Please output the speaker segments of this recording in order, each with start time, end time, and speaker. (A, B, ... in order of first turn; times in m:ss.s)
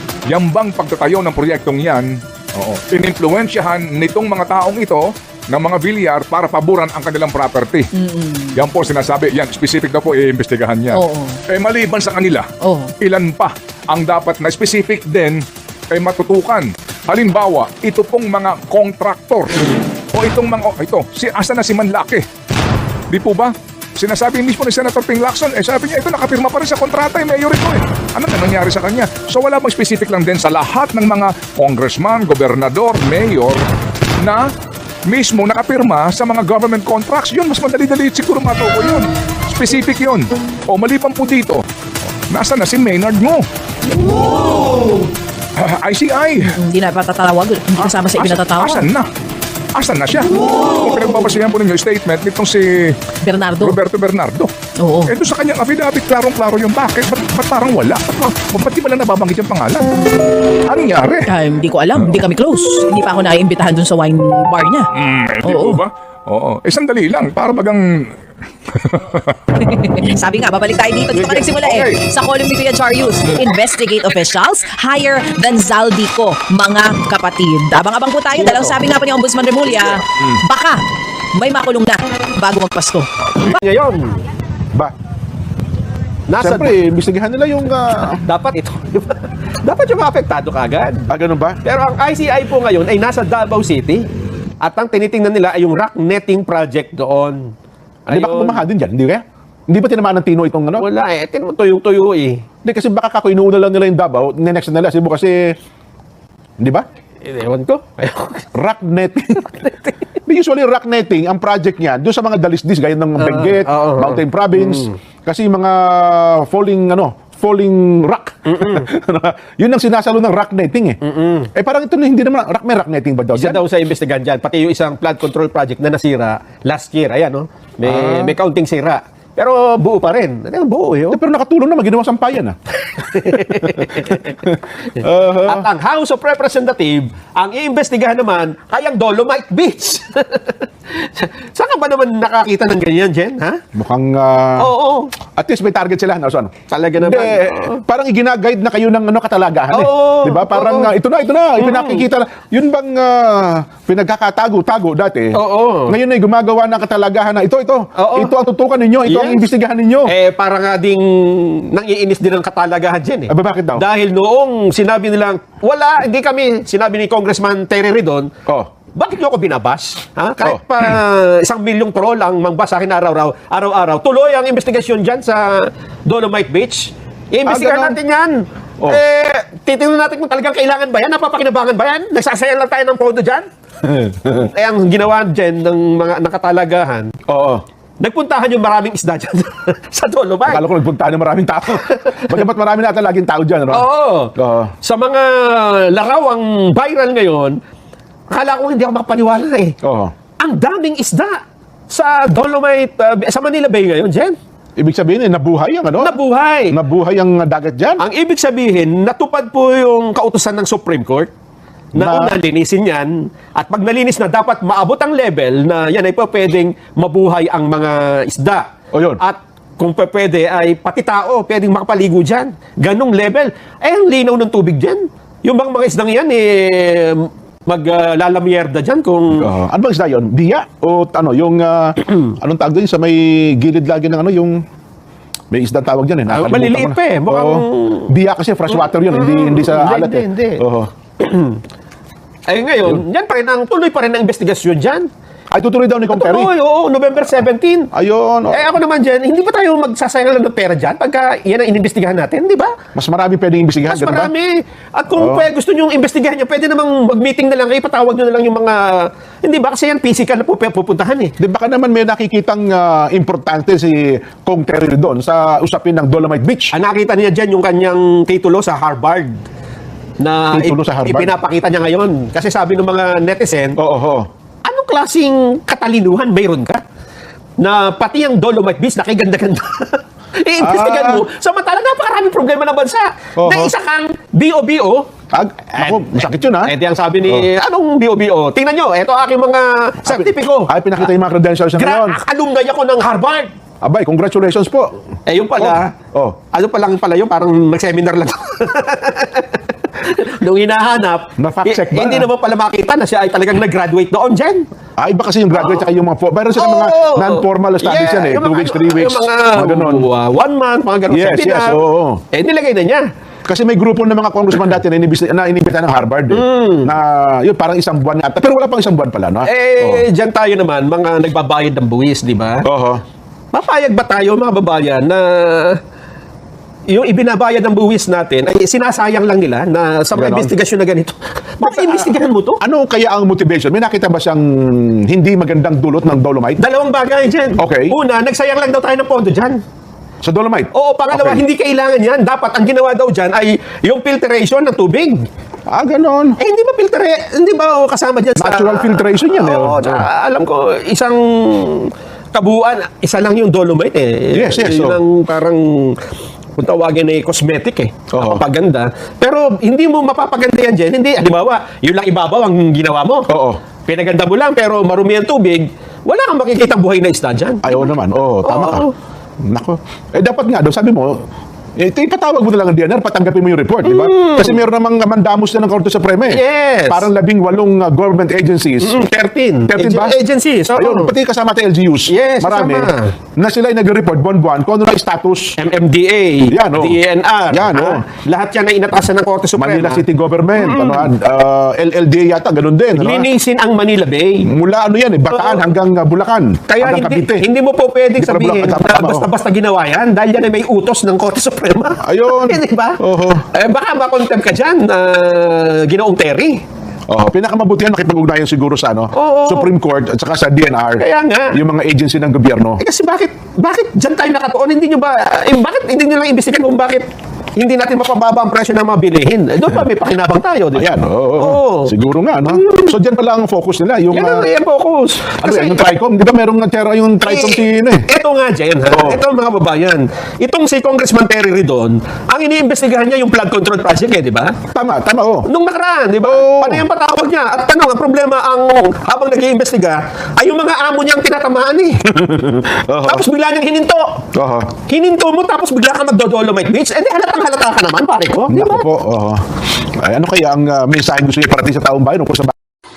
0:00.3-0:07.9 A
0:07.9-0:08.6 B
0:08.5-0:12.5 A
0:10.9-0:11.4 B
0:12.6-0:12.9 B
0:13.0-0:22.2 A
0:23.1-0:33.6 A
0:34.2-0:34.4 A
0:35.1-0:41.6 A
0:42.3-0:43.4 A
0:45.6-0:46.6 A
0:46.4-0:48.9 B
0:47.8-0:49.1 A
0:49.7-0:54.5 A
0:53.2-0:53.8 B
0:54.8-0:55.1 B
0:55.0-1:00.0 A
1:00.0-1:00.3 B
1:00.6-1:01.3 A
1:01.3-1:04.9 B
1:04.9-1:08.1 A
1:05.4-1:05.8 B
1:08.7-1:10.1 A
1:09.6-1:20.8 B
1:11.1-1:12.0 A
1:13.3-1:13.5 A
1:20.1-1:20.4 A
1:21.4-1:23.1 B
1:23.4-1:24.2 C
1:26.3-1:26.7 C
1:26.4-1:28.2 D
1:28.2-1:31.1 C
1:31.1-1:31.6 D
1:31.6-1:34.1 C
1:34.6-1:37.5 C
1:38.0-1:38.6 C
1:38.1-1:40.9 D
1:40.8-1:42.4 C
1:42.6-1:45.6 D
1:46.6-1:46.8 D
1:47.2-1:48.5 C
1:48.5-1:49.5 D
1:50.2-2:01.0 D
1:53.2-1:54.9 C
1:58.5-1:58.9 C
2:01.0-2:01.5 C
2:01.5-2:03.6 D
2:03.4-2:11.2 C
2:07.8-2:08.4 D
2:11.1-2:12.6 D
2:12.8-2:14.4 C
2:13.4-2:15.7 D
2:15.4-2:23.6 C
2:23.7-2:24.7 D
2:24.6-2:25.1 C
2:25.4-2:40.1 D
2:26.7-2:27.8 C
2:29.7-2:31.0 C
2:31.6-2:32.0 C
2:35.3-2:36.0 C
2:38.0-2:38.3 C
2:39.1-2:39.4 C
2:40.1-2:48.3 C
2:43.3-2:43.8 D
2:48.9-3:03.5 C
2:57.4-2:58.0 D
3:03.8-3:04.5 D
3:04.3-3:07.1 C
3:07.3-3:07.6 D
3:08.0-3:10.7 C
3:10.4-3:14.7 D
3:11.9-3:12.4 C
3:13.7-3:17.6 C
3:18.3-3:19.8 C
3:19.8-3:20.1 D
3:20.4-3:24.3 C
3:24.8-3:26.2 D
3:26.0-3:26.8 C
3:26.7-3:28.0 D
3:28.0-3:31.3 C
3:31.9-3:32.3 D
3:31.9-3:49.5 C
3:38.9-3:39.2 D
3:49.3-3:54.6 D
3:55.5-4:00.9 D
3:56.3-3:58.1 C
3:58.7-4:00.6 C
4:01.2-4:01.6 C
4:02.5-4:05.1 C
4:05.5-4:06.5 D
4:06.1-4:07.9 C
4:07.9-4:08.7 D
4:08.5-4:12.7 C
4:12.9-4:14.3 D
4:13.8-4:21.3 C
4:15.1-4:15.5 D
4:21.4-4:26.7 D
4:26.7-4:29.4 C
4:30.2-4:33.8 C
4:30.5-4:31.3 D
4:33.8-4:34.3 D
4:34.6-4:36.8 C
4:37.6-4:45.1 C
4:40.6-4:41.2 D
4:43.4-4:43.7 D
4:45.3-4:46.7 D
4:45.8-4:51.0 C
4:50.0-4:52.2 D
4:51.8-4:53.5 C
4:53.8-4:55.0 D
4:55.3-4:55.9 C
4:55.6-4:56.4 D
4:56.5-5:04.7 C
5:01.4-5:02.3 D
5:05.0-5:10.1 D
5:05.5-5:05.9 C
5:06.5-5:11.8 C
5:11.1-5:12.2 D
5:12.3-5:13.0 C
5:13.4-5:20.1 D
5:16.3-5:16.9 C
5:19.4-5:22.6 C
5:22.6-5:23.0 D
5:23.5-5:25.8 C
5:26.9-5:32.6 C
5:30.1-5:30.5 D
5:31.6-5:36.6 D
5:36.6-5:39.6 C
5:37.6-5:38.0 D
5:40.2-5:41.4 D
5:40.7-5:45.2 C
5:45.7-5:46.4 D
5:46.4-5:56.0 C
5:48.4-5:50.1 D
5:54.3-5:55.0 D
5:56.6-6:03.3 C
5:58.1-5:58.4 D
6:03.3-6:03.6 D
6:03.9-6:07.9 C
6:07.6-6:08.9 D
6:08.4-6:08.9 C
6:09.5-6:11.2 D
6:11.8-6:19.0 D
6:13.8-6:14.6 C
6:16.3-6:17.1 C
6:18.8-6:21.1 C
6:19.7-6:20.2 D
6:20.7-6:25.6 D
6:22.1-6:23.1 C
6:25.6-6:30.0 C
6:26.5-6:28.0 D
6:29.6-6:33.3 D
6:30.6-6:31.1 C
6:33.0-6:34.5 C
6:34.4-6:37.4 D
6:35.3-6:35.6 C
6:36.7-6:43.0 C
6:38.2-6:39.3 D
6:42.0-6:43.4 D
6:43.5-6:46.6 C
6:47.1-6:52.8 D
6:49.1-6:49.7 C
6:51.0-6:51.6 C
6:52.8-7:00.9 C
7:00.7-7:04.5 D
7:01.4-7:01.9 C
7:02.5-7:02.9 C
7:04.1-7:05.9 C
7:05.4-7:08.0 D
7:07.2-7:14.6 C
7:08.9-7:09.2 D
7:14.7-7:15.5 D
7:15.5-7:22.0 C
7:16.2-7:16.9 D
7:22.1-7:23.2 D
7:23.0-7:24.2 C
7:24.3-7:24.7 D
7:24.9-7:28.8 C
7:28.5-7:29.4 D
7:30.0-7:32.5 D